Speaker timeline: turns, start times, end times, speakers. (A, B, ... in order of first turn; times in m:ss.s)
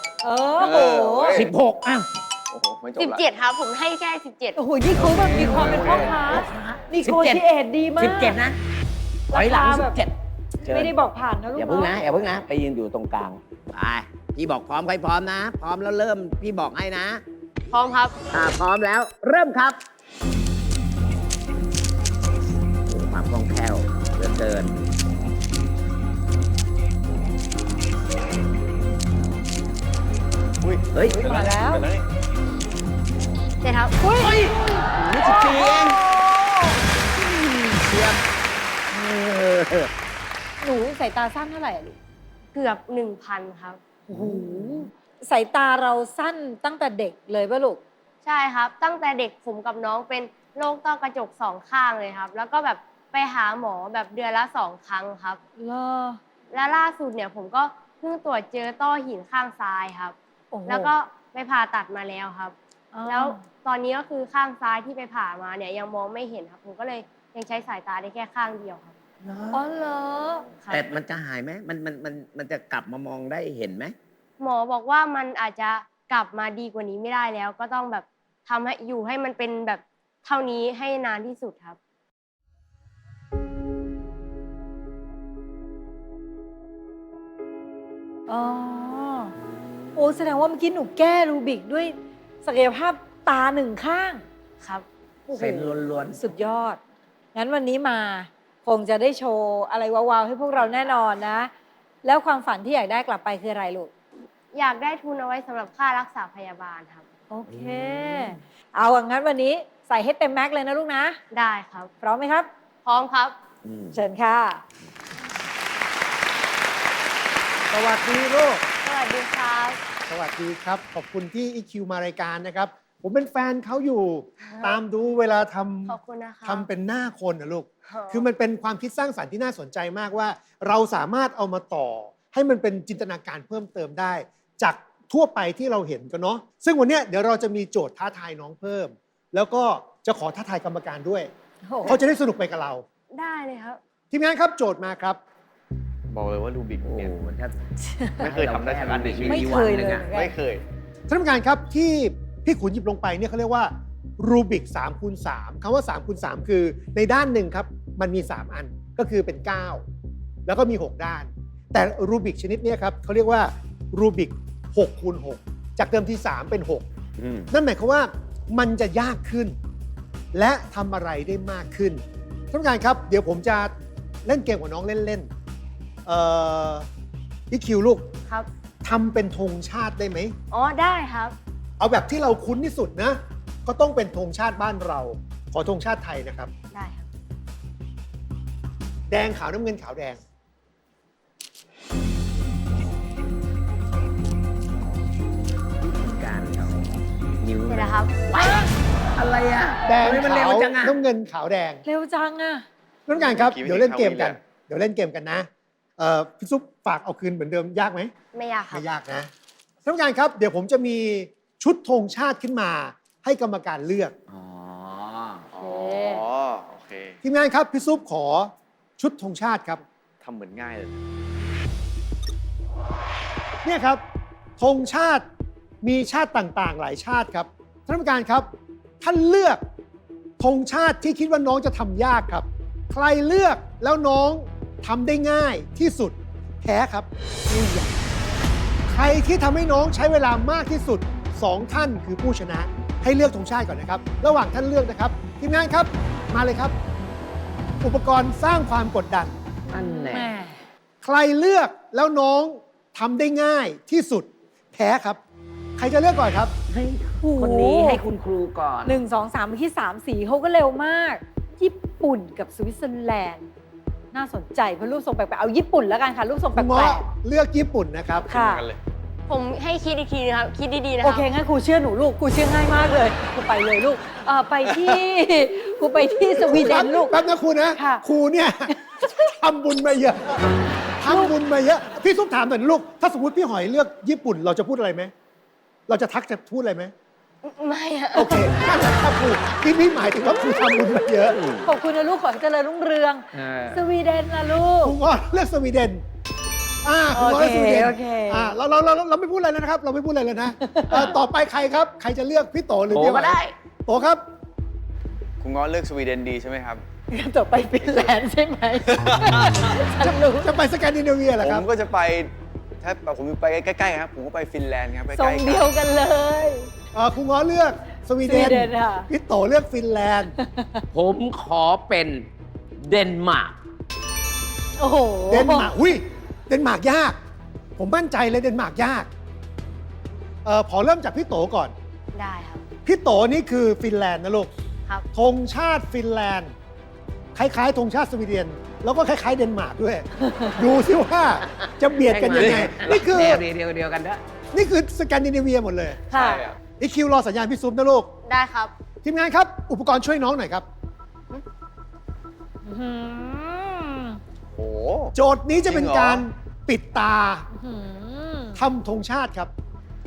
0:00.2-0:01.4 A
0:00.6-0:01.5 B
0:01.3-0:02.1 C
0:02.5-0:03.2 B
0:03.0-0:04.6 D
0:04.6-0:08.4 A
0:05.0-0:06.2 B
0:05.0-0:07.4 C
0:08.0-0:08.6 C
0:09.3-0:10.0 A
0:09.3-0:10.1 C
0:10.6-0:10.9 C
0:10.6-0:12.0 A
0:11.5-0:17.2 C
0:17.7-0:18.1 D
0:18.3-0:19.8 C
0:22.9-0:24.8 C
0:30.6-0:32.0 B
0:30.9-0:31.2 C
0:31.1-0:31.8 A
0:33.6-0:33.9 D
0:34.0-0:34.5 A
0:34.2-0:36.0 C
0:35.2-0:36.8 A
0:37.3-0:38.2 C
0:38.9-0:39.9 C
0:40.6-0:42.0 A
0:42.5-0:43.8 D
0:44.1-0:47.8 A
0:44.1-0:44.7 C
0:48.2-0:55.4 D
0:55.6-0:56.2 A
0:56.5-1:02.5 D
1:00.5-1:00.9 A
1:02.9-1:03.4 A
1:03.0-1:09.0 D
1:09.5-1:10.5 A
1:10.7-1:13.9 C
1:14.4-1:21.8 D
1:28.3-1:29.3 A
1:30.0-1:34.2 A
1:35.3-1:36.8 A
1:35.3-1:36.2 C
1:37.3-1:41.5 A
1:42.0-1:43.9 A
1:44.5-1:47.0 D
1:47.3-1:51.2 A
1:47.5-1:48.3 C
1:51.3-1:51.9 D
1:52.0-1:52.5 A
1:52.8-1:53.3 D
1:53.6-1:54.0 C
1:53.9-1:54.6 A
1:57.7-1:58.6 E
1:58.8-1:59.8 D
2:00.1-2:21.3 E
2:04.4-2:04.8 D
2:05.9-2:06.6 D
2:07.9-2:08.2 D
2:21.7-2:22.0 A
2:21.8-2:22.8 E
2:23.1-2:23.8 D
2:24.1-2:25.2 E
2:26.1-2:27.1 B
2:26.8-2:27.6 C
2:27.8-2:28.2 A
2:28.2-2:30.6 B
2:28.2-2:30.1 C
2:29.2-2:30.3 A
2:31.1-2:39.8 E
2:40.4-2:46.8 E
2:47.2-2:47.5 C
2:47.5-2:49.6 E
2:50.3-2:53.7 E
2:54.2-2:55.3 E
2:56.0-2:56.8 E
2:57.5-2:58.1 E
2:58.8-3:00.3 E
3:00.5-3:01.3 D
3:01.8-3:06.5 E
3:06.7-3:07.1 D
3:09.1-3:10.2 E
3:15.8-3:16.9 C
3:17.4-3:21.0 C
3:17.7-3:18.5 D
3:19.8-3:21.8 E
3:21.8-3:22.6 A
3:23.1-3:25.5 E
3:23.1-3:24.4 B
3:26.0-3:28.1 E
3:28.3-3:28.8 D
3:28.7-3:29.3 E
3:29.8-3:34.1 E
3:34.3-3:35.4 C
3:35.5-3:37.2 B
3:35.6-3:36.2 A
3:37.2-3:39.8 E
3:40.2-3:41.0 B
3:43.6-3:44.0 E
3:44.6-3:45.2 E
3:45.8-3:48.5 E
3:49.0-3:49.6 E
3:50.4-3:57.9 E
3:58.9-4:06.7 E
4:07.8-4:09.4 E
4:09.7-4:10.3 C
4:09.7-4:10.6 A
4:11.0-4:15.2 E
4:15.8-4:16.5 E
4:16.7-4:19.0 C
4:17.2-4:18.0 A
4:18.8-4:23.4 A
4:24.1-4:27.0 A
4:26.5-4:28.3 E
4:28.2-4:28.8 B
4:28.3-4:28.6 A
4:29.3-4:31.2 D
4:31.0-4:37.2 A
4:36.4-4:40.4 E
4:37.7-4:38.0 A
4:38.7-4:39.3 A
4:41.0-4:45.1 E
4:41.0-4:41.3 A
4:45.9-4:46.9 E
4:47.4-4:48.5 D
4:48.1-4:51.4 E
4:51.3-4:51.6 C
4:51.6-4:55.0 A
4:53.3-4:53.8 C
4:54.8-4:56.0 E
4:56.8-5:04.2 E
4:57.1-4:58.5 A
5:00.6-5:01.1 A
5:02.9-5:03.5 C
5:05.4-5:06.8 B
5:07.1-5:10.5 A
5:07.8-5:08.1 B
5:08.9-5:09.6 B
5:10.0-5:11.6 E
5:11.4-5:15.7 B
5:15.1-5:16.7 A
5:16.9-5:20.3 E
5:18.2-5:19.1 A
5:20.4-5:20.8 A
5:20.9-5:22.3 C
5:22.8-5:23.5 C
5:24.8-5:25.7 A
5:25.3-5:27.2 E
5:27.8-5:29.1 E
5:30.4-5:31.7 E
5:32.1-5:32.6 D
5:32.8-5:34.5 E
5:35.1-5:36.5 E
5:37.3-5:43.4 E
5:40.2-5:40.5 A
5:41.5-5:44.2 C
5:44.5-5:46.0 E
5:46.1-5:46.4 A
5:46.1-5:46.6 B
5:46.7-5:48.1 E
5:48.2-5:48.7 D
5:49.0-5:50.6 E
5:52.6-5:54.2 A
5:54.5-5:55.1 B
5:55.1-5:57.5 E
5:55.7-5:56.2 B
5:57.5-5:58.6 A
5:58.6-5:59.5 E